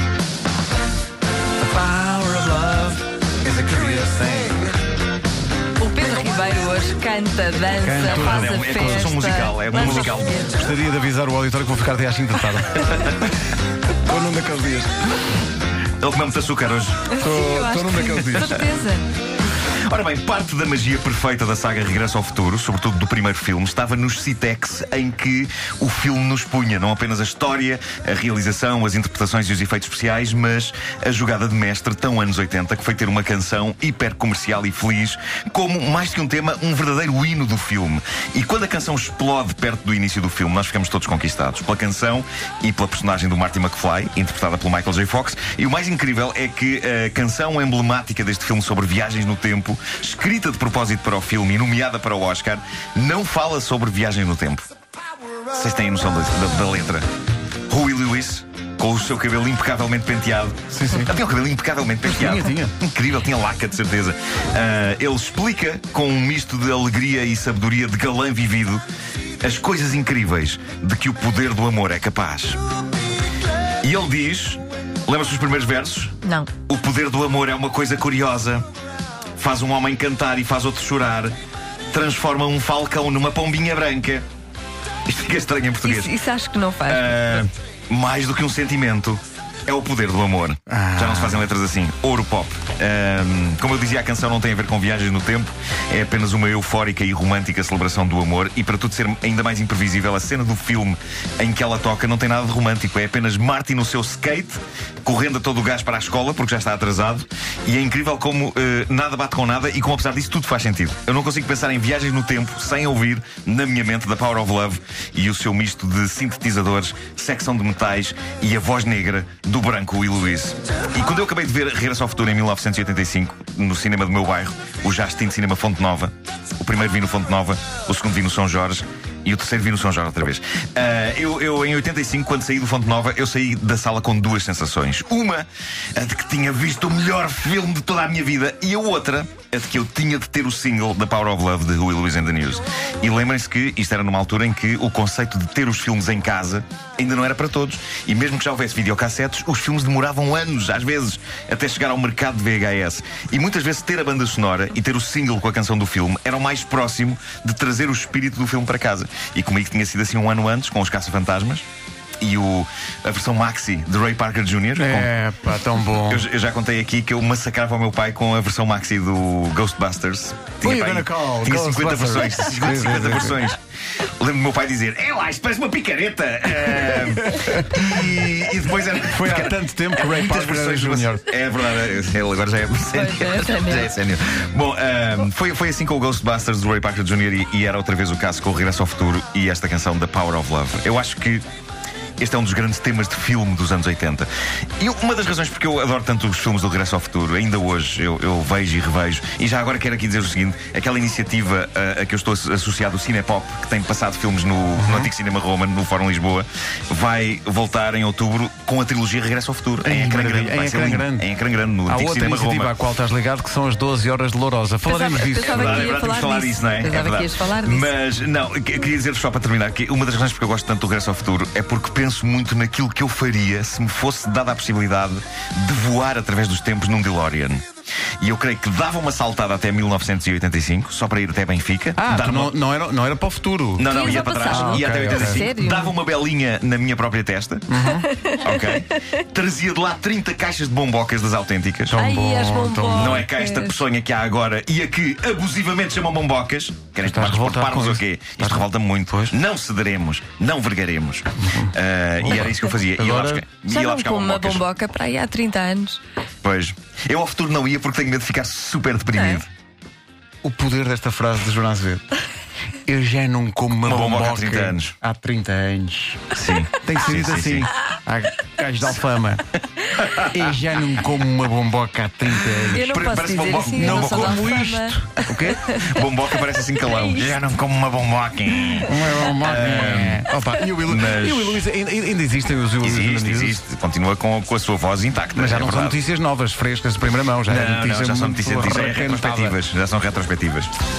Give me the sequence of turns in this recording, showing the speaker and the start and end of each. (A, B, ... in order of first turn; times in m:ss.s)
0:01.6-0:04.7 A
0:05.8-0:10.6 B
0:07.8-0:09.1 A
0:08.0-0:10.5 C
0:10.5-0:13.5 A
0:14.0-0:15.0 A
0:16.0-0:17.1 C
0:17.1-0:19.1 B
0:17.2-0:18.6 A
0:19.6-0:54.7 C
0:55.5-0:57.0 C
0:57.7-1:08.8 C
1:00.7-1:01.1 A
1:02.0-1:02.7 A
1:09.4-1:12.6 C
1:13.8-1:16.2 C
1:16.2-1:16.5 B
1:16.7-1:18.6 C
1:19.4-1:21.3 C
1:21.9-1:24.2 C
1:25.1-1:26.1 C
1:25.8-1:27.4 B
1:26.8-2:41.6 C
1:30.7-1:31.4 A
2:42.2-2:45.1 C
2:44.8-2:46.2 A
2:45.9-3:11.4 C
2:50.6-2:53.4 A
2:57.0-2:58.2 A
2:59.1-3:01.3 A
3:02.9-3:03.9 B
3:12.2-3:32.7 C
3:24.8-3:25.1 A
3:29.8-3:31.3 A
3:31.9-3:35.9 A
3:34.8-3:37.9 B
3:35.4-3:47.6 C
3:48.2-3:52.5 C
3:52.0-3:55.4 A
3:53.8-3:57.6 C
3:53.8-3:55.9 B
3:57.7-3:58.1 A
3:57.9-3:58.8 B
3:58.4-4:02.0 C
4:01.9-4:03.2 A
4:02.0-4:03.8 B
4:02.9-4:14.6 C
4:07.0-4:09.3 A
4:11.5-4:13.4 A
4:13.6-4:16.0 B
4:16.4-4:19.5 C
4:19.2-4:19.4 B
4:20.4-4:22.0 A
4:22.8-4:29.5 A
4:23.8-4:24.9 C
4:26.3-4:27.7 C
4:30.0-4:30.3 C
4:30.3-4:32.9 A
4:32.7-4:34.6 C
4:32.7-4:36.0 B
4:33.4-4:35.6 A
4:35.8-4:40.3 C
4:36.8-4:37.4 B
4:38.8-4:43.6 A
4:40.8-4:41.6 C
4:42.8-4:46.0 C
4:45.3-4:49.6 A
4:47.5-4:50.7 C